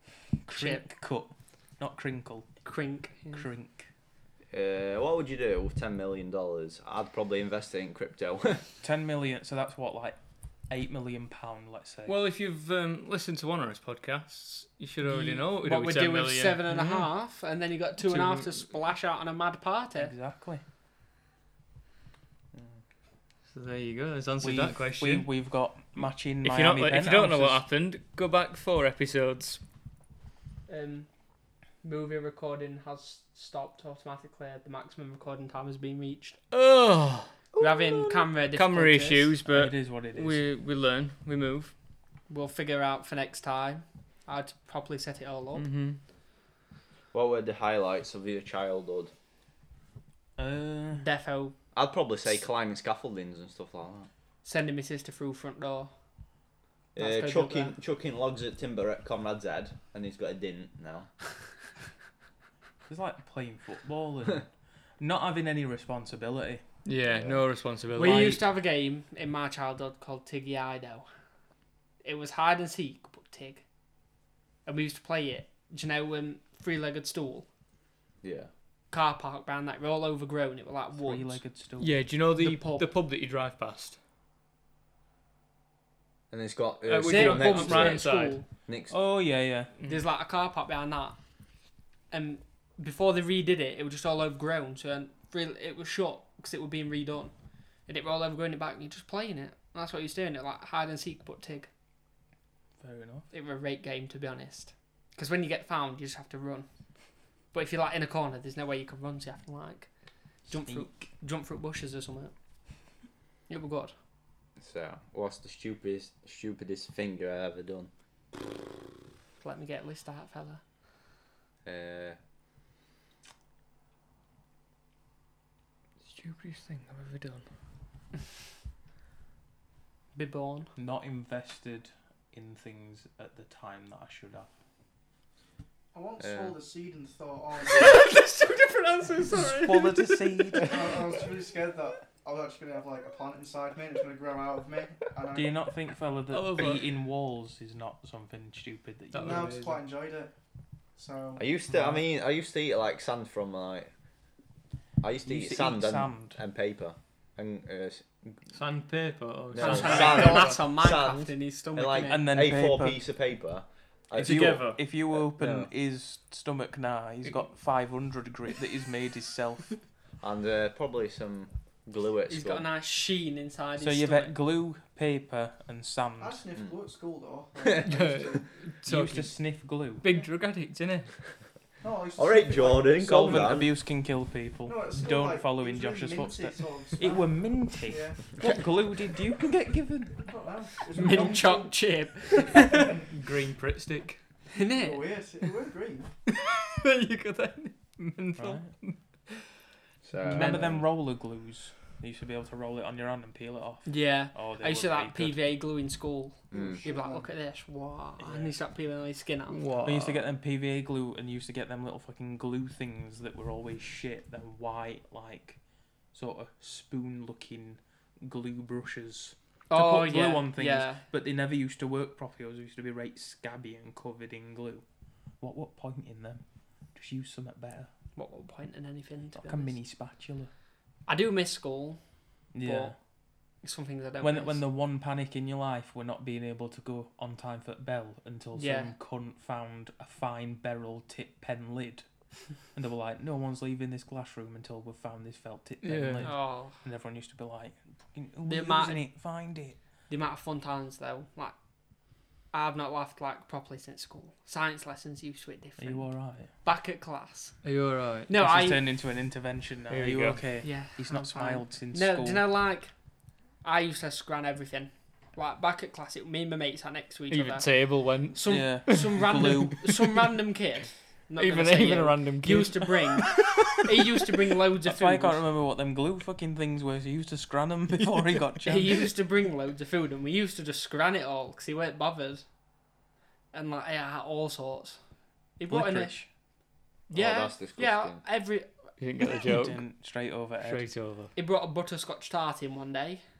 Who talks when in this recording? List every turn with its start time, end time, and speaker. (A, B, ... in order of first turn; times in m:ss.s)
0:00.5-0:02.6 A
0:00.5-0:00.9 B
0:02.6-0:03.4 B
0:03.3-0:03.9 A
0:04.5-0:08.6 C
0:08.8-0:10.2 A
0:10.7-0:12.1 A
0:12.1-0:16.7 D
0:15.0-0:20.1 B
0:16.7-0:17.0 A
0:18.0-0:18.5 A
0:20.0-0:20.6 A
0:23.5-0:25.3 D
0:24.4-0:27.6 A
0:26.4-0:29.6 D
0:30.7-0:31.1 B
0:31.8-0:36.4 B
0:36.5-0:41.7 D
0:37.6-0:39.3 B
0:39.4-0:40.4 A
0:42.3-0:45.7 B
0:45.5-0:46.0 D
0:47.1-0:49.1 C
0:50.4-0:51.1 A
0:51.0-0:51.5 B
0:51.7-0:54.1 C
0:54.4-0:55.9 B
0:56.9-1:01.1 C
0:57.0-0:57.8 B
1:02.9-1:04.5 A
1:05.0-1:06.6 A
1:06.8-1:08.4 D
1:07.1-1:07.4 C
1:08.0-1:11.1 B
1:08.0-1:08.4 A
1:12.0-1:13.6 B
1:14.6-1:17.5 B
1:18.2-1:18.5 C
1:18.9-1:21.4 B
1:20.9-1:22.1 A
1:21.8-1:24.0 D
1:22.4-1:22.9 B
1:26.3-1:28.1 C
1:26.8-1:28.4 D
1:27.0-1:28.4 B
1:28.7-1:28.9 C
1:28.9-1:29.7 A
1:29.8-1:30.0 D
1:29.8-1:31.2 B
1:32.1-1:37.3 B
1:37.8-1:41.7 B
1:42.8-1:43.3 A
1:43.3-1:46.7 B
1:47.5-1:49.9 B
1:50.4-1:52.3 B
1:50.6-1:50.9 A
1:53.5-1:53.9 B
1:54.6-1:57.9 C
1:59.4-2:00.6 B
2:01.6-2:02.2 C
2:06.0-2:07.4 D
2:10.1-2:10.7 B
2:10.8-2:14.5 A
2:15.9-2:18.0 E
2:16.2-2:16.6 C
2:17.7-2:20.2 B
2:19.3-2:20.8 A
2:20.6-2:25.7 E
2:25.3-2:29.5 A
2:26.3-2:26.9 D
2:29.1-2:29.8 D
2:29.2-2:30.3 E
2:31.0-2:31.4 E
2:31.4-2:33.9 C
2:31.7-2:32.0 A
2:35.0-2:38.5 C
2:35.2-2:36.4 A
2:38.5-2:40.6 D
2:39.5-2:45.7 C
2:39.6-2:42.2 B
2:42.1-2:43.0 A
2:44.1-2:49.8 A
2:44.2-2:44.8 D
2:50.2-2:52.7 C
2:52.3-2:54.3 B
2:53.8-2:56.4 A
2:56.2-2:58.5 E
2:57.8-2:59.3 D
2:58.8-3:00.0 A
3:00.0-3:01.1 D
3:01.8-3:03.6 E
3:02.2-3:03.7 C
3:03.0-3:10.3 A
3:04.6-3:08.5 E
3:10.2-3:13.0 E
3:10.9-3:12.9 B
3:12.6-3:14.2 D
3:14.5-3:15.1 B
3:14.7-3:16.1 E
3:16.3-3:19.4 D
3:18.4-3:18.7 A
3:20.0-3:20.9 C
3:20.3-3:25.5 A
3:20.3-3:20.6 B
3:23.8-3:29.6 B
3:26.5-3:26.8 C
3:26.5-3:27.3 E
3:28.2-3:28.5 A
3:29.5-3:30.2 D
3:29.8-3:35.6 A
3:36.1-3:44.8 A
3:39.7-3:41.0 B
3:45.4-3:46.4 A
3:46.9-3:47.9 A
3:48.1-3:49.8 B
3:49.4-3:50.5 A
3:51.1-3:52.0 B
3:52.5-3:53.0 A
3:52.6-3:52.9 B
3:53.6-3:54.6 B
3:54.2-4:02.0 A
3:58.5-3:58.9 B
4:02.7-4:09.8 A
4:05.8-4:06.3 D
4:06.2-4:06.8 B
4:08.4-4:09.0 B
4:10.1-4:11.5 B
4:12.5-4:17.6 B
4:15.8-4:16.5 A
4:17.6-4:18.3 D
4:18.3-4:18.8 B
4:18.3-4:22.4 A
4:19.9-4:20.4 D
4:20.6-4:22.9 B
4:23.6-4:35.4 B
4:27.3-4:29.9 D
4:28.4-4:29.9 A
4:31.4-4:33.6 D
4:34.8-4:39.1 A
4:38.0-4:38.4 D
4:38.6-4:42.4 B
4:43.5-4:45.0 B
4:45.6-4:46.1 B
4:45.7-4:46.3 A
4:47.1-4:48.9 B
4:47.1-4:48.2 C
4:49.0-4:49.8 D
4:49.4-4:50.9 A
4:50.6-4:51.3 D
4:51.3-4:53.2 B